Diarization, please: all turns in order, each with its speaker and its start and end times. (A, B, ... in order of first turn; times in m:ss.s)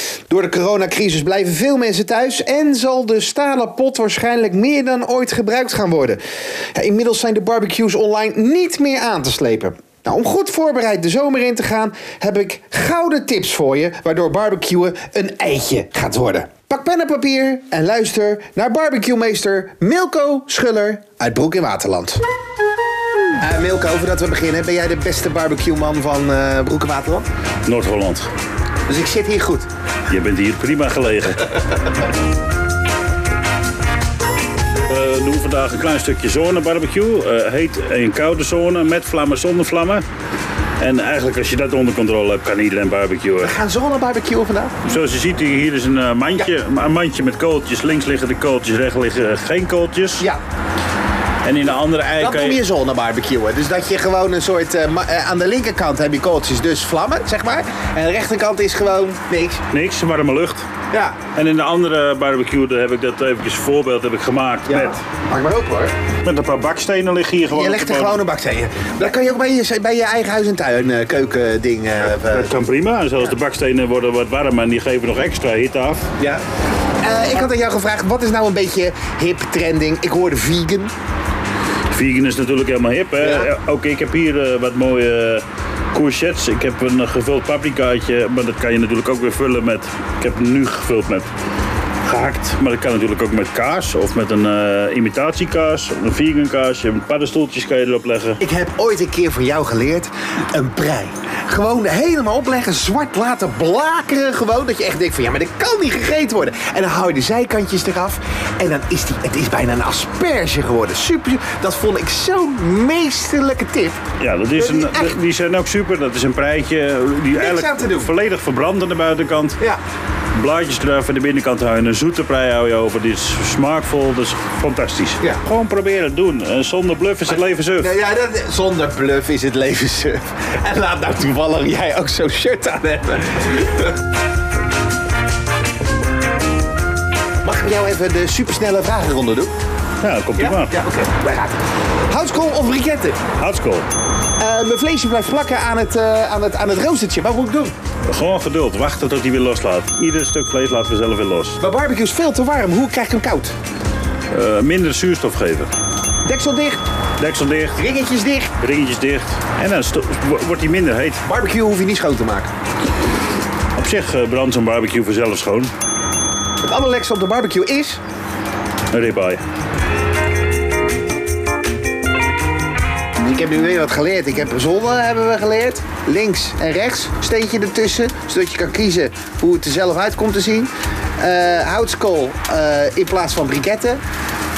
0:00.3-0:06.2 A
0:06.8-0:22.2 A
0:23.4-0:27.3 A
0:27.7-0:28.3 B
0:28.9-0:29.7 A
0:30.1-0:31.6 B
0:34.9-0:40.0 B
0:40.8-0:43.6 B
0:43.4-0:44.8 A
0:44.8-0:50.3 B
0:51.4-0:52.6 B
0:52.2-0:59.6 A
0:59.7-1:00.7 B
1:00.9-1:01.2 A
1:01.3-1:05.0 B
1:04.7-1:05.9 A
1:06.2-1:08.2 B
1:07.5-1:12.6 A
1:12.1-1:16.0 B
1:17.0-1:20.9 A
1:21.9-1:31.3 B
1:23.2-1:23.5 A
1:32.0-1:38.4 B
1:38.4-1:54.0 A
1:54.2-1:59.6 B
1:54.6-1:55.2 A
1:57.4-1:58.1 A
2:00.4-2:07.9 B
2:07.3-2:13.9 A
2:17.4-2:19.5 A
2:20.0-2:20.7 B
2:20.4-2:21.6 A
2:22.1-2:23.2 A
2:23.4-2:23.9 B
2:24.4-2:27.7 A
2:28.1-2:31.6 B
2:31.6-2:33.5 A
2:34.3-2:35.7 B
2:36.2-2:36.8 A
2:37.2-2:37.8 B
2:37.8-2:38.5 A
2:38.6-2:41.2 B
2:41.2-2:42.5 A
2:43.8-2:45.7 B
2:46.6-2:48.0 A
2:48.9-2:49.4 B
2:53.2-3:04.0 A